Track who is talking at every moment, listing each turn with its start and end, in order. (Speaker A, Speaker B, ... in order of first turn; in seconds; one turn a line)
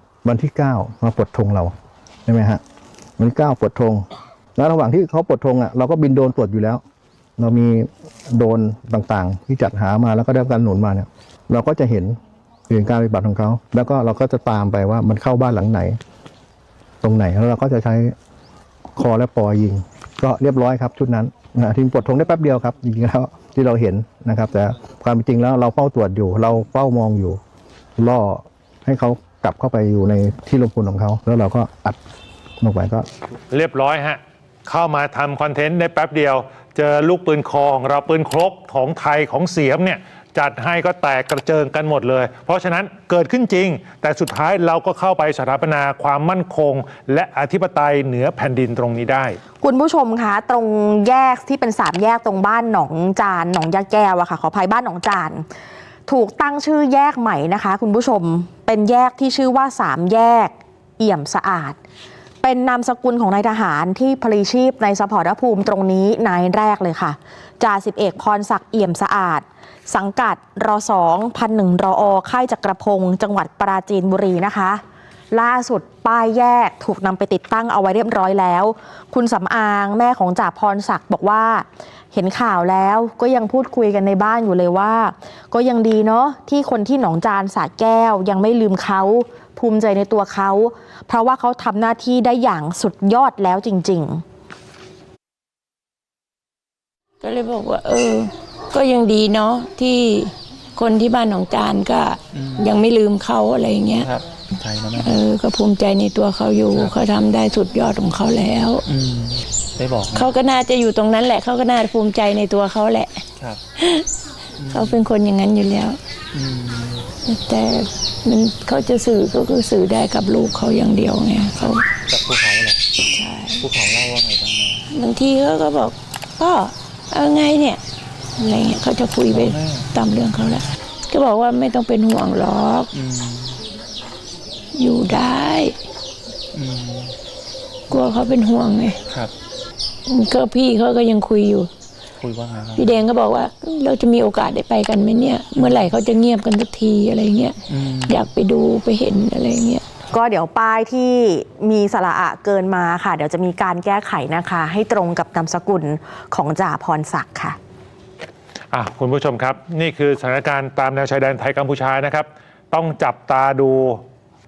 Speaker A: 0.2-1.7
Speaker A: 2.3-2.6
Speaker A: 3.2-6.8
Speaker A: 7.4-12.2
Speaker A: 12.7-16.0
Speaker A: 17.0-18.1
Speaker A: 19.0-27.4
Speaker A: 28.0-32.0
Speaker A: 32.6-33.1
Speaker B: 33.5-49.4
Speaker C: 49.6-55.5
Speaker C: 56.1-61.8
Speaker C: 62.4-74.8
Speaker C: 75.3-94.2
Speaker D: 97.2-104.1
Speaker E: 102.3-102.7
Speaker E: 104.0-105.2
Speaker D: 105.0-108.8
Speaker E: 106.7-107.0
Speaker E: 108.8-110.3
Speaker D: 110.1-113.2
Speaker D: 113.8-114.1
Speaker E: 114.6-115.0
Speaker D: 114.7-116.0
Speaker E: 116.3-117.1
Speaker D: 117.2-121.9
Speaker E: 122.1-122.8
Speaker D: 123.1-123.7
Speaker E: 123.6-124.9
Speaker D: 124.9-127.8
Speaker D: 128.4-132.9
Speaker E: 129.3-129.9
Speaker E: 132.9-133.6
Speaker D: 134.7-135.8
Speaker E: 136.5-137.2
Speaker D: 137.9-139.0
Speaker D: 140.1-141.7
Speaker E: 142.2-143.0
Speaker D: 142.8-149.8
Speaker E: 145.6-145.9
Speaker E: 147.7-148.2
Speaker C: 150.1-157.6
Speaker B: 158.7-164.0